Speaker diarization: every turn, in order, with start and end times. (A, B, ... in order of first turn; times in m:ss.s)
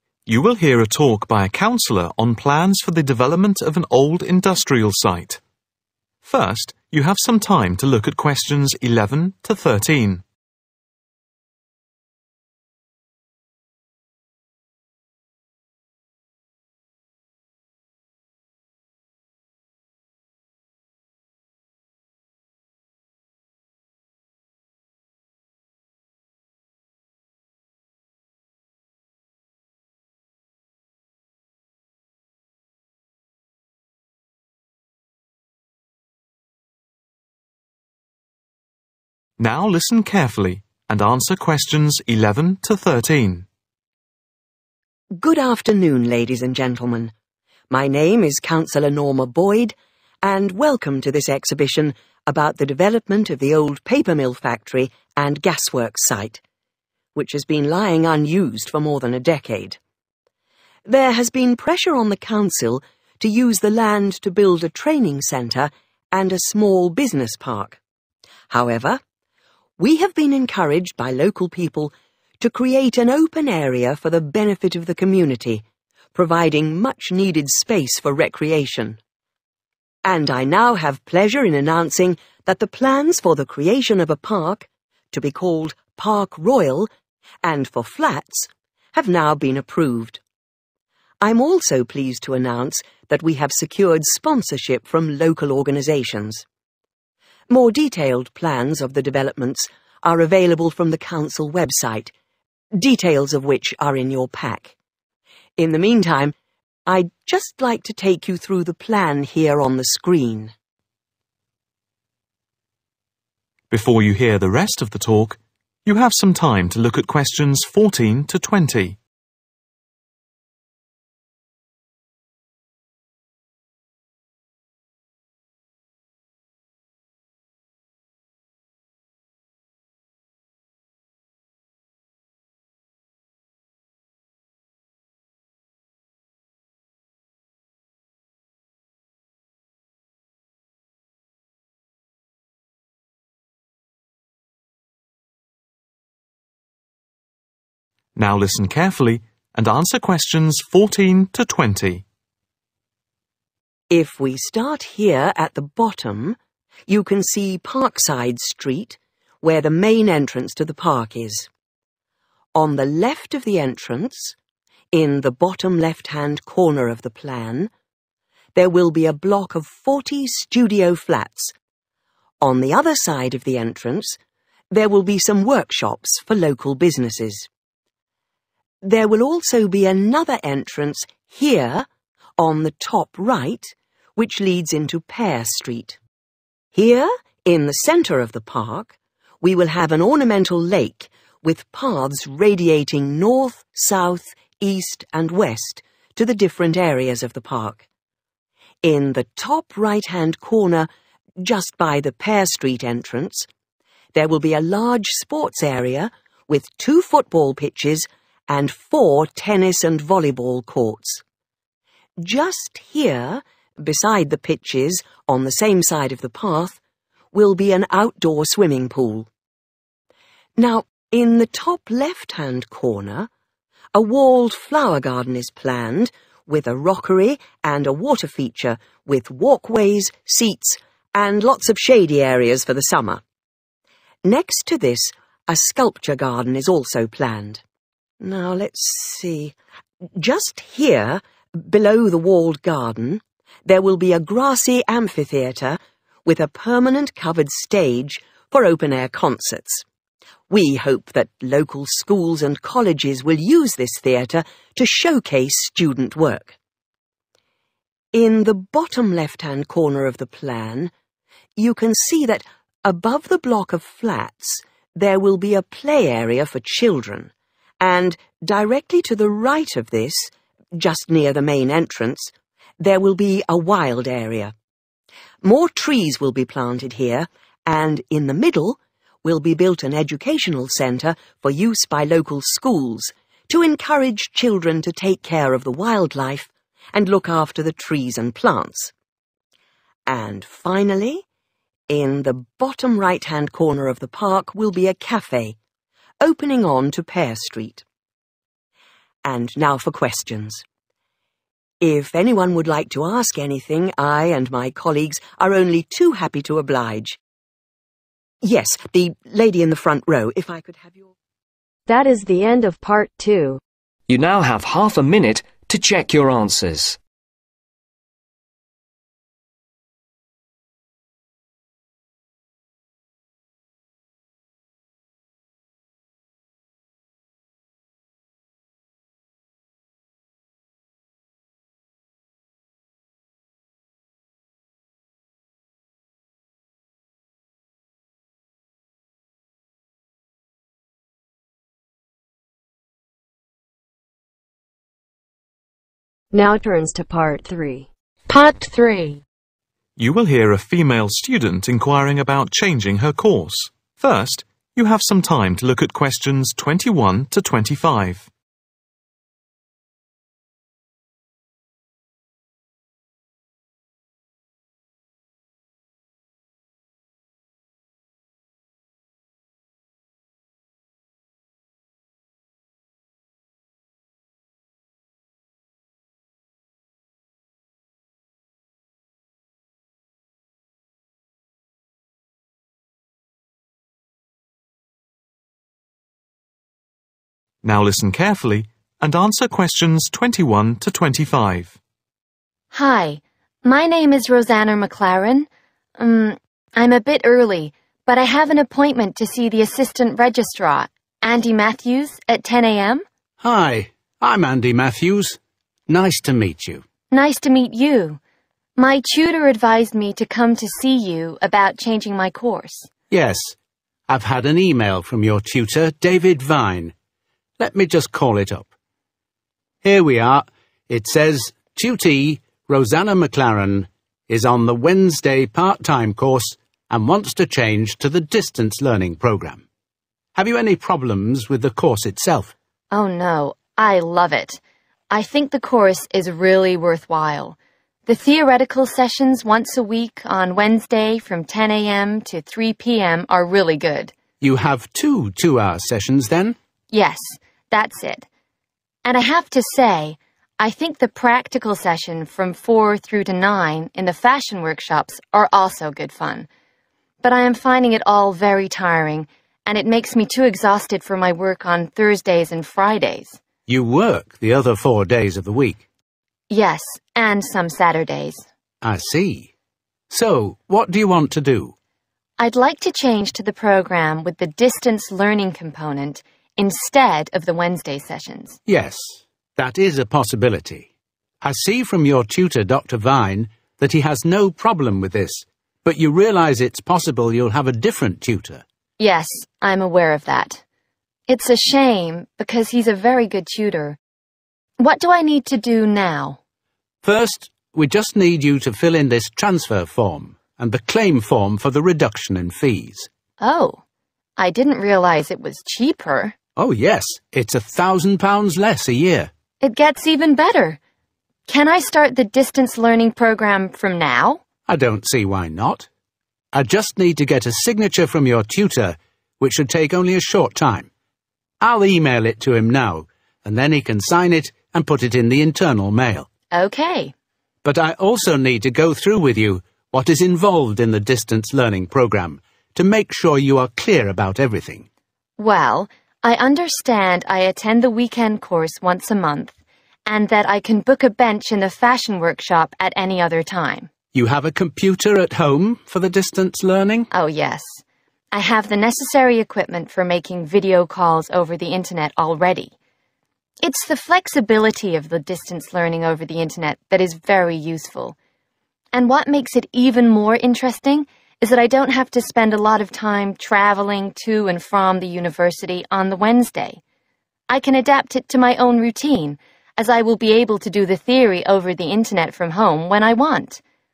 0:00.3-0:05.4 A
0:06.2-0:10.2 A
0:39.4-0:43.5 A
0:45.2-0:47.1 B
0:47.7-0:56.4 B
0:57.2-0:59.8 B
1:00.9-1:07.8 B
1:08.5-1:09.0 B
1:09.8-1:15.6 B
1:16.2-1:19.0 B
1:20.0-1:26.9 B
1:27.4-1:30.2 B
1:31.2-1:36.4 B
1:37.5-1:42.1 B
1:42.8-1:44.7 B
1:45.6-1:46.4 B
1:46.9-1:50.5 B
1:53.7-1:59.0 A
2:28.2-2:32.0 A
2:33.9-2:41.5 B
2:42.6-2:44.4 B
2:44.9-2:47.7 B
2:48.6-2:51.5 B
2:52.4-2:54.2 B
2:54.7-2:57.5 B
2:58.8-3:01.9 B
3:02.4-3:06.0 B
3:06.7-3:17.8 B
3:18.8-3:20.9 B
3:21.4-3:23.5 B
3:24.1-3:31.2 B
3:32.2-3:36.8 B
3:37.3-3:39.3 B
3:40.6-3:43.3 B
3:43.9-3:53.2 B
3:54.2-3:57.6 B
3:58.2-3:59.6 B
4:00.2-4:09.8 B
4:10.5-4:16.6 B
4:18.1-4:20.9 B
4:21.6-4:34.5 B
4:35.4-4:48.9 B
4:50.1-4:51.2 B
4:51.9-4:55.6 B
4:56.2-4:57.8 B
4:59.2-5:00.6 B
5:01.8-5:07.2 B
5:08.4-5:11.1 B
5:11.9-5:13.6 C
5:14.1-5:17.0 D
5:46.3-5:47.9 C
5:48.3-5:49.2 E
5:50.0-5:58.3 A
6:27.6-6:31.8 A
6:32.7-6:43.0 E
6:43.4-6:46.8 F
6:47.1-6:48.2 E
6:48.8-6:52.9 E
6:53.1-6:53.6 F
6:54.1-6:56.9 F
6:57.6-6:58.7 F
6:59.8-7:09.6 F
7:10.4-7:12.5 F
7:12.9-7:24.1 E
7:24.4-7:26.6 F
7:26.9-7:28.3 E
7:29.0-7:36.5 E
7:37.2-7:43.4 E
7:43.7-7:45.8 F
7:46.5-7:48.5 E
7:48.8-7:49.5 F
7:50.1-7:51.7 F
7:52.4-7:58.6 E
7:58.7-8:00.9 F
8:01.4-8:08.6 F
8:09.0-8:10.6 E
8:11.3-8:14.0 E
8:14.8-8:16.4 E
8:17.0-8:23.1 F
8:23.4-8:23.8 E
8:24.4-8:26.4 E
8:26.6-8:29.3 F
8:29.6-8:30.8 E
8:31.5-8:34.4 E
8:34.7-8:35.9 F
8:36.5-8:40.9 F
8:41.6-8:46.3 F
8:46.5-8:47.1 E
8:47.6-8:54.9 F
8:55.4-8:59.5 E
9:00.1-9:03.9 E
9:04.1-9:07.1 F
9:07.1-9:12.7 E
9:13.6-9:18.2 E
9:18.9-9:26.8 E
9:27.5-9:33.6 E